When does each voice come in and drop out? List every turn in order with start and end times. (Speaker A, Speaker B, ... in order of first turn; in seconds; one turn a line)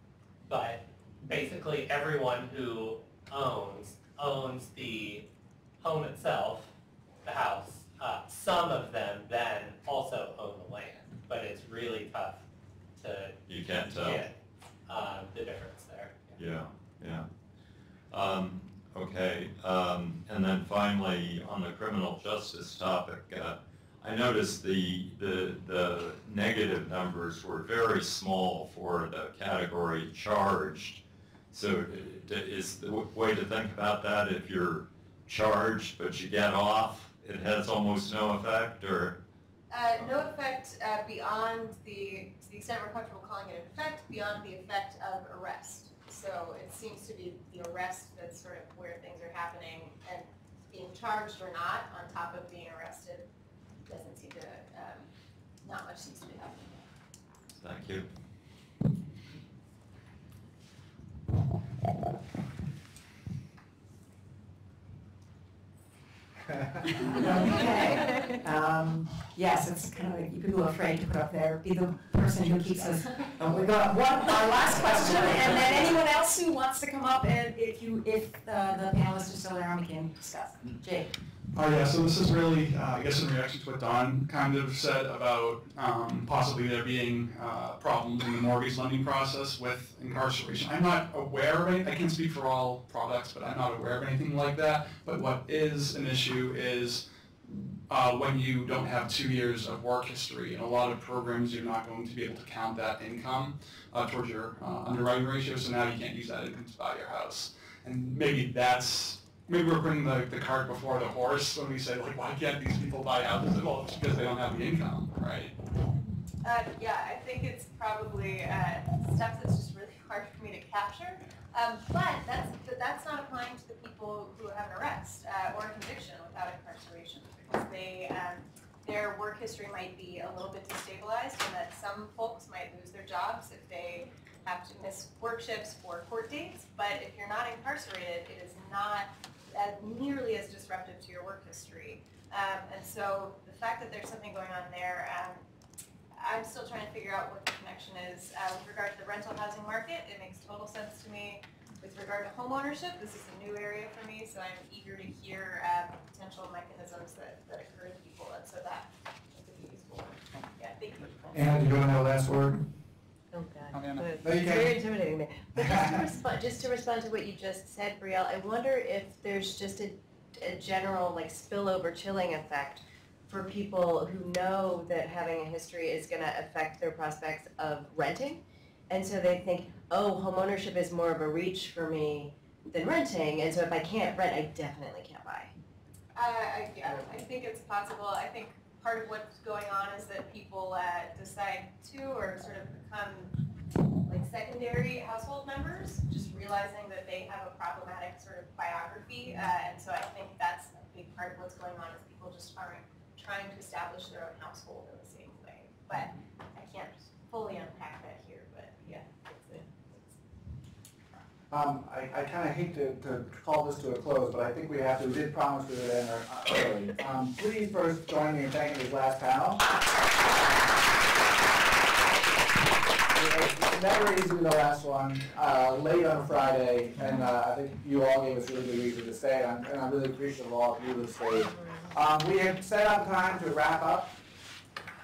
Speaker A: 0.5-5.3
Speaker A: 5.8-6.7
Speaker A: 7.2-12.4
Speaker A: 13.0-13.4
Speaker B: 13.5-14.2
Speaker A: 13.9-14.3
Speaker A: 14.9-16.4
Speaker B: 16.4-17.2
Speaker B: 18.1-31.0
Speaker B: 31.5-39.2
Speaker C: 39.7-53.3
Speaker C: 53.9-55.1
Speaker C: 55.6-56.9
Speaker B: 57.6-58.1
Speaker D: 67.1-81.1
Speaker E: 81.5-115.5
Speaker C: 116.4-145.4
Speaker C: 146.2-161.6
Speaker F: 161.3-162.6
Speaker G: 163.3-185.5
Speaker F: 163.8-164.7
Speaker C: 186.1-193.4
Speaker C: 194.0-210.1
Speaker F: 211.5-219.7
Speaker F: 223.1-234.2